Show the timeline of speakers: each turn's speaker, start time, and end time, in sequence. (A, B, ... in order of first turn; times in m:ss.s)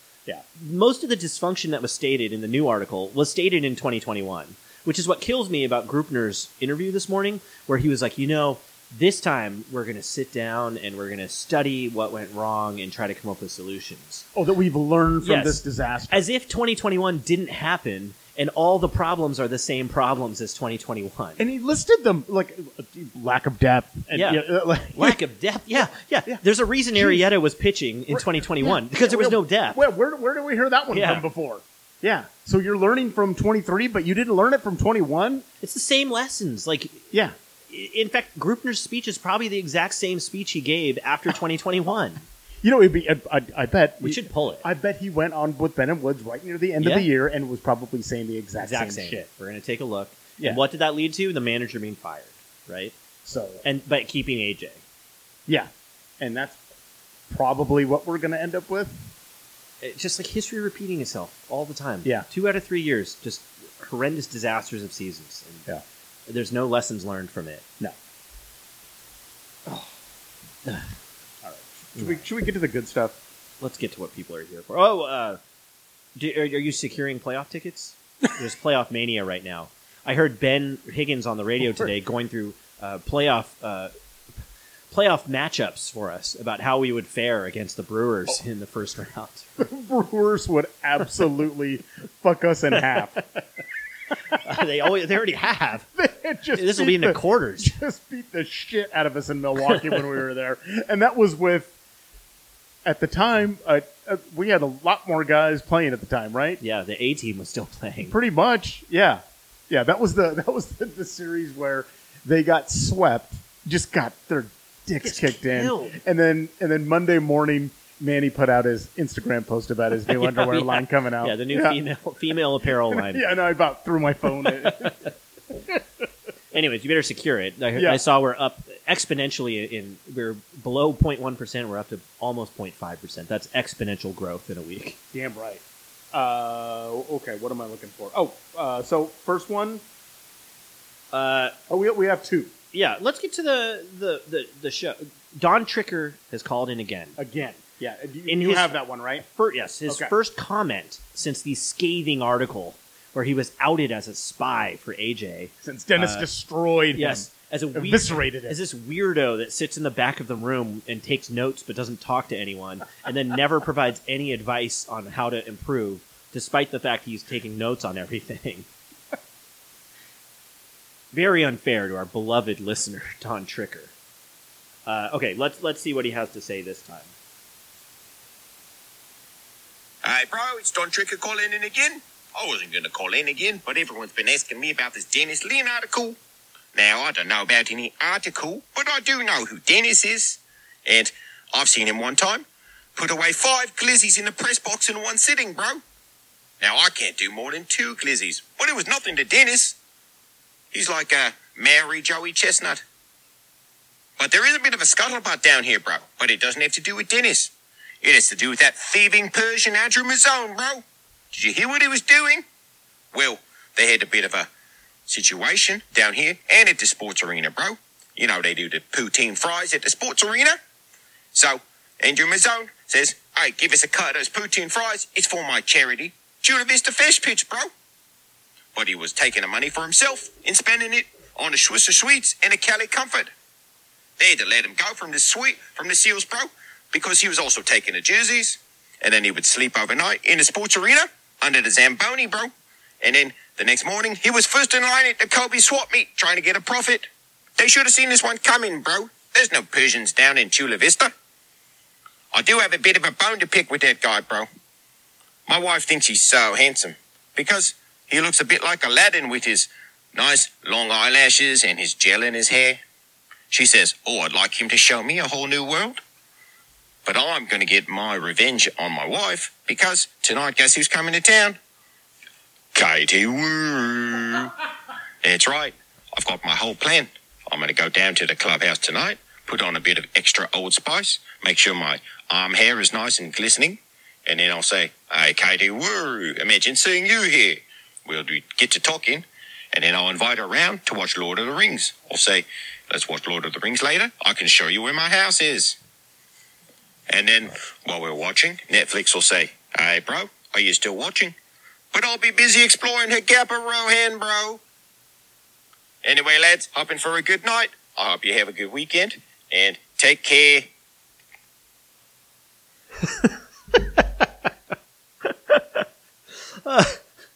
0:00.6-0:14.2 A
0:14.3-0:16.3 B
0:15.2-0:21.4 A
0:21.4-0:25.2 B
0:24.1-0:29.8 A
0:26.9-0:27.2 B
0:28.1-0:35.4 B
0:30.9-0:31.2 A
0:35.6-0:37.0 A
0:37.7-0:42.2 A
0:42.6-0:49.3 B
0:44.0-0:44.6 A
0:46.8-0:47.1 A
0:48.6-0:52.9 A
0:53.2-0:53.6 B
0:53.6-0:54.8 A
0:55.5-0:56.6 B
0:57.3-0:59.0 B
0:59.8-1:05.7 A
1:06.3-1:07.6 A
1:11.4-1:13.2 B
1:13.6-1:15.4 A
1:16.2-1:23.9 A
1:24.9-1:29.6 A
1:29.6-1:33.4 B
1:34.3-1:35.8 A
1:36.0-1:41.7 B
1:36.5-1:37.8 A
1:42.8-1:46.6 B
1:46.6-1:48.2 A
1:48.1-2:01.8 B
1:55.0-1:56.0 A
2:00.1-2:03.3 A
2:02.9-2:05.8 B
2:06.5-2:15.0 A
2:07.7-2:08.0 B
2:15.1-2:19.8 B
2:21.1-2:21.6 A
2:21.7-2:22.5 B
2:22.7-2:27.2 A
2:27.2-2:29.2 B
2:28.3-2:36.3 A
2:29.9-2:30.1 B
2:35.6-2:38.6 B
2:36.9-2:48.7 A
2:51.1-2:53.9 A
2:54.8-2:57.1 A
3:00.0-3:06.2 C
3:06.7-3:12.4 C
3:13.0-3:15.8 C
3:16.6-3:19.8 C
3:20.7-3:22.8 C
3:24.2-3:32.4 C
3:33.1-3:34.5 C
3:35.0-3:40.6 C
3:41.3-3:47.7 C
3:48.7-3:53.3 C
3:54.2-4:02.5 C
4:03.0-4:11.1 C
4:12.3-4:14.5 C
4:15.5-4:22.8 C
4:23.5-4:26.0 C
4:27.0-4:31.6 C
4:32.7-4:34.5 C
4:35.2-4:55.8 C
4:57.1-5:01.3 C
5:01.9-5:04.6 C
5:06.0-5:10.7 C
5:15.5-5:15.8 A
5:16.6-5:17.0 A